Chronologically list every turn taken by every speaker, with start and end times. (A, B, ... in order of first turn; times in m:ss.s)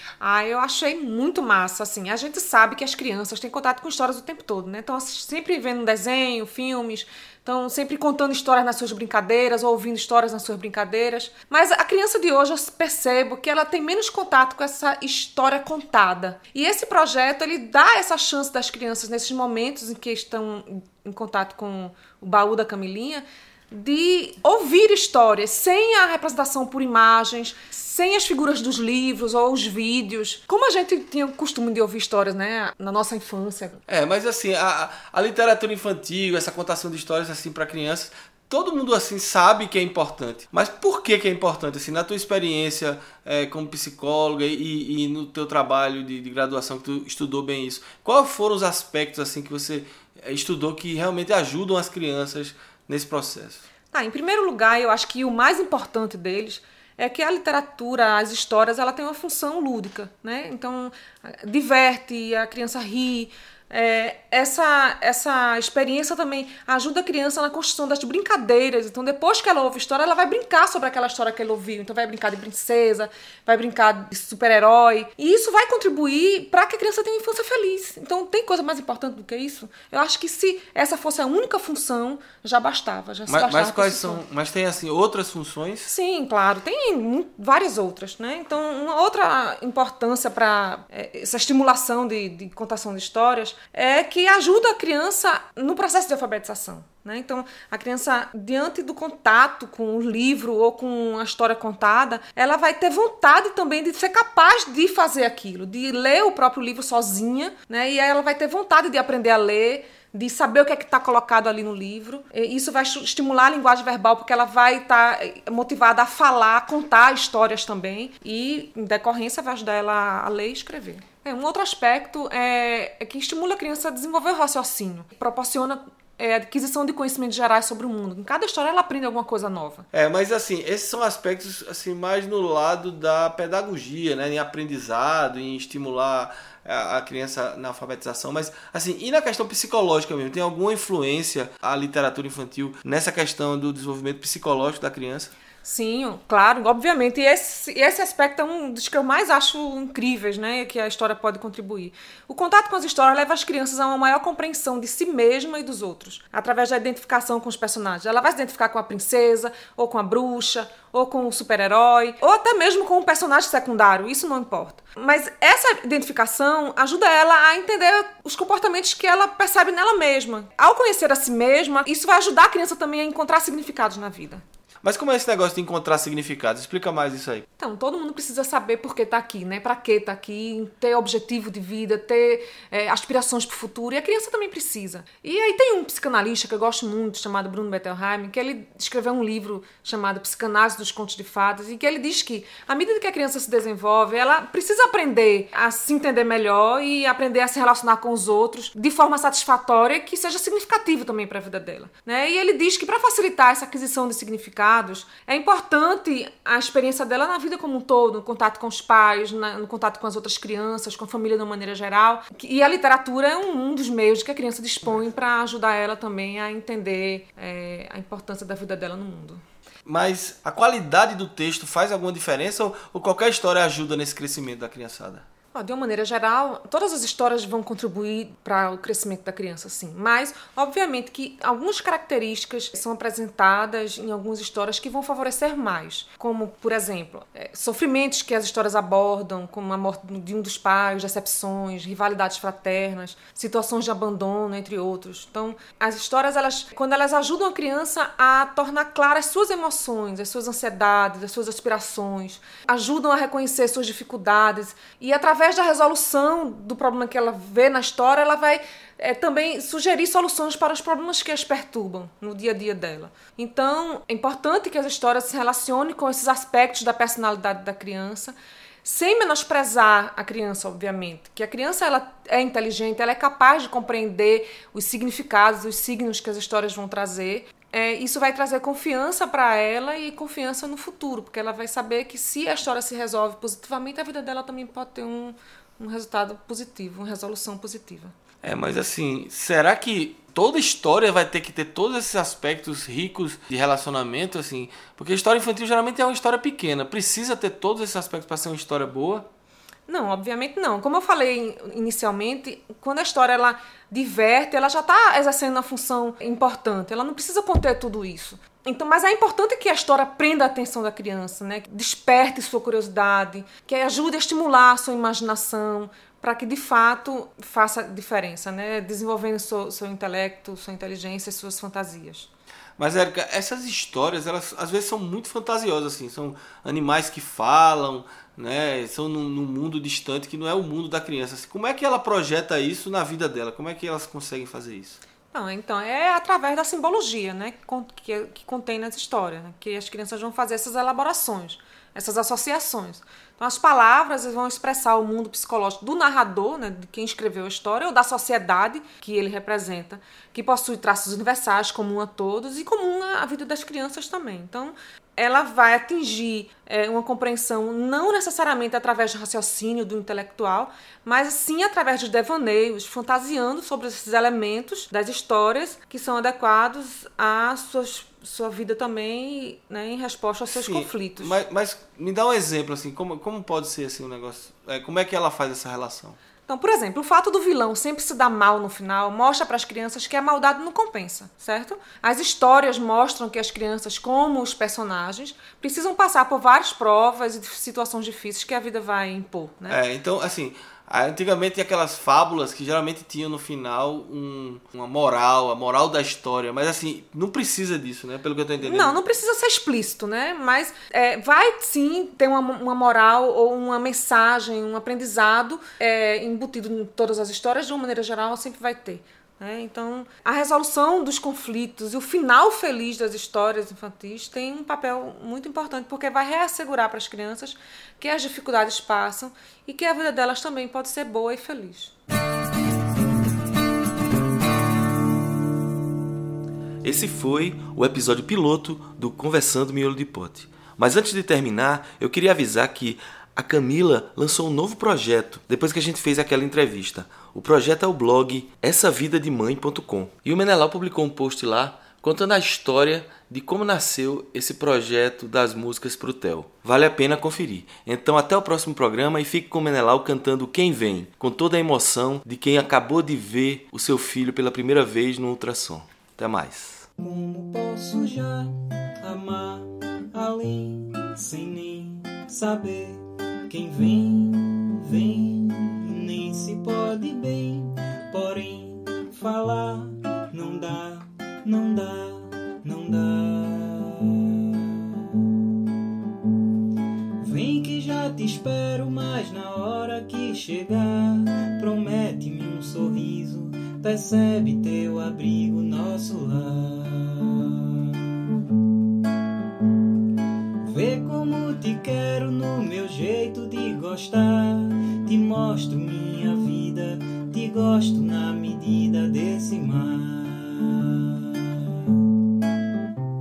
0:00.2-0:33.8 A
0:33.9-0:53.6 B
0:53.9-1:24.2 A
1:23.3-1:25.9 B
1:25.8-2:09.8 A
2:09.9-2:25.3 B
2:25.6-2:54.4 A
2:54.8-2:57.4 B
2:57.6-3:39.4 A
3:39.8-3:45.2 B
3:45.5-4:48.1 A
4:48.4-4:59.3 B
4:59.9-5:22.3 A
5:22.8-5:35.0 B
5:35.3-6:11.4 A
6:10.5-6:16.2 B
6:16.5-6:29.8 A
6:29.7-6:39.0 B
6:38.6-7:01.9 A
7:06.8-7:36.9 B
7:37.0-7:55.3 C
7:57.2-8:08.4 C
8:10.6-8:22.1 C